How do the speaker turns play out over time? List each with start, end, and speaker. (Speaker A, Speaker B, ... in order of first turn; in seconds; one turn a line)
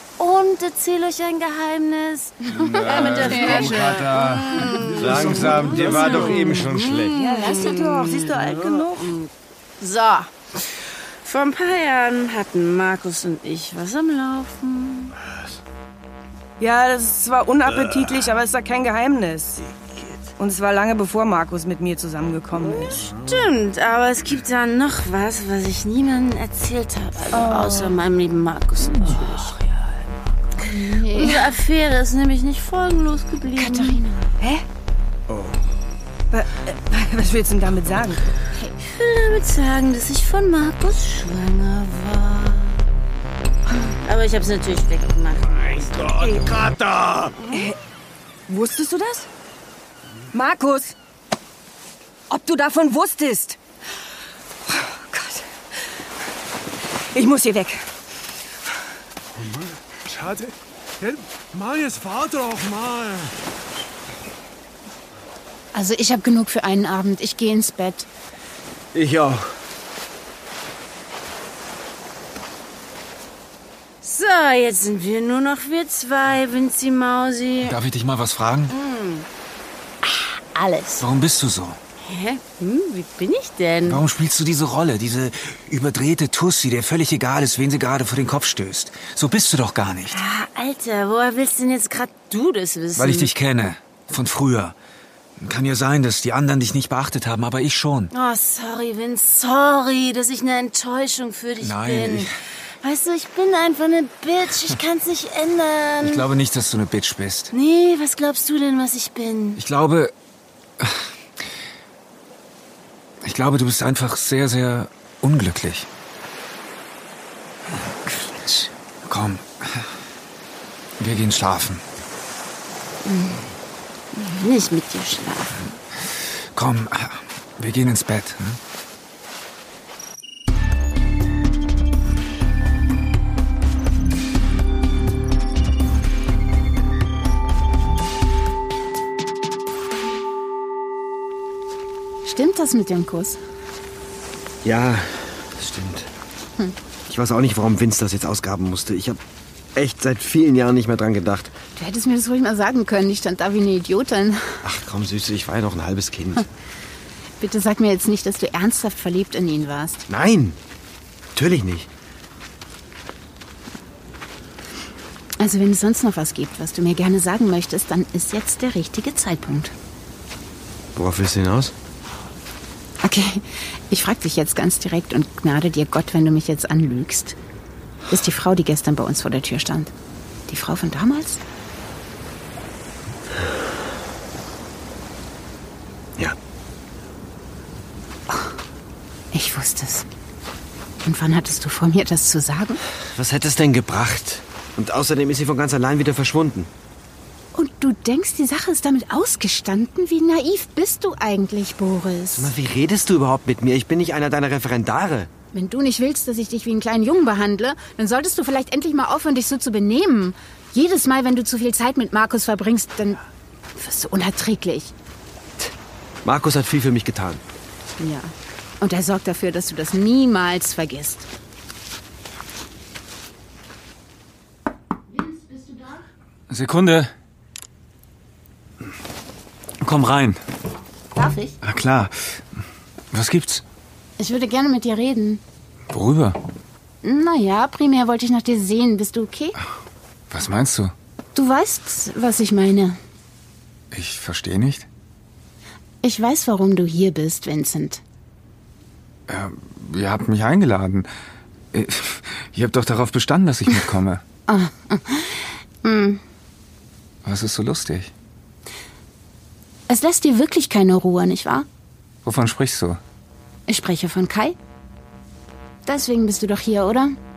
Speaker A: 0.2-10.3
Speaker B: 2.5-7.2
Speaker C: 2.9-4.6
Speaker D: 4.8-6.0
Speaker E: 7.1-9.2
Speaker A: 11.2-15.2
Speaker E: 16.6-19.6
Speaker E: 20.4-23.1
Speaker A: 22.6-29.8
Speaker E: 27.6-27.9
Speaker C: 30.6-31.5
Speaker A: 30.6-34.0
Speaker C: 33.6-34.3
Speaker E: 36.3-38.2
Speaker A: 38.8-42.8
Speaker A: 44.0-46.0
Speaker B: 46.0-47.3
Speaker E: 46.1-46.5
Speaker A: 47.4-47.7
Speaker E: 47.5-47.8
Speaker E: 48.5-49.3
Speaker E: 50.3-50.9
Speaker E: 52.3-53.6
Speaker E: 54.6-55.5
Speaker E: 57.1-57.9
Speaker D: 59.3-63.3
Speaker C: 65.7-68.1
Speaker B: 68.9-69.5
Speaker A: 74.0-77.8
Speaker F: 77.6-78.7
Speaker A: 78.7-79.2
Speaker F: 81.0-81.8
Speaker A: 82.0-84.0
Speaker F: 83.8-90.2
Speaker A: 90.1-93.3
Speaker F: 93.0-94.8
Speaker F: 95.4-98.1
Speaker A: 98.1-106.2
Speaker F: 101.6-102.3
Speaker F: 106.0-107.5
Speaker A: 107.5-109.6
Speaker F: 109.5-110.1
Speaker F: 113.2-115.9
Speaker F: 119.0-119.9
Speaker F: 121.0-121.8
Speaker A: 123.1-123.4
Speaker A: 124.1-125.8
Speaker F: 126.5-128.6
Speaker C: 142.2-143.4
Speaker B: 144.6-146.1
Speaker B: 147.1-149.2
Speaker B: 149.8-151.5
Speaker C: 151.8-154.6
Speaker B: 154.6-156.4
Speaker C: 157.4-160.0
Speaker B: 160.1-160.6
Speaker B: 161.3-161.9
Speaker C: 165.4-169.7
Speaker B: 170.9-171.7
Speaker C: 173.0-177.4
Speaker C: 178.1-179.9
Speaker C: 180.5-181.4
Speaker C: 188.3-188.5
Speaker C: 189.3-190.1
Speaker C: 191.0-192.8
Speaker B: 193.1-196.7
Speaker C: 197.5-202.5
Speaker B: 202.3-205.3
Speaker C: 205.5-213.2
Speaker C: 213.8-214.9
Speaker B: 216.2-217.4
Speaker C: 218.0-221.3
Speaker C: 225.2-226.0
Speaker F: 226.5-227.1
Speaker F: 229.8-230.4
Speaker C: 231.1-231.6
Speaker F: 231.6-232.4
Speaker F: 233.1-233.6
Speaker C: 234.2-235.4
Speaker F: 235.9-236.4
Speaker C: 237.0-239.6
Speaker F: 240.3-240.9
Speaker C: 241.3-243.0
Speaker F: 243.9-244.9
Speaker C: 246.0-248.0
Speaker F: 249.3-251.1
Speaker F: 251.7-254.2
Speaker C: 254.5-256.2
Speaker F: 257.2-258.1
Speaker C: 259.9-261.6
Speaker F: 262.2-263.0
Speaker C: 263.7-264.6
Speaker C: 265.9-267.1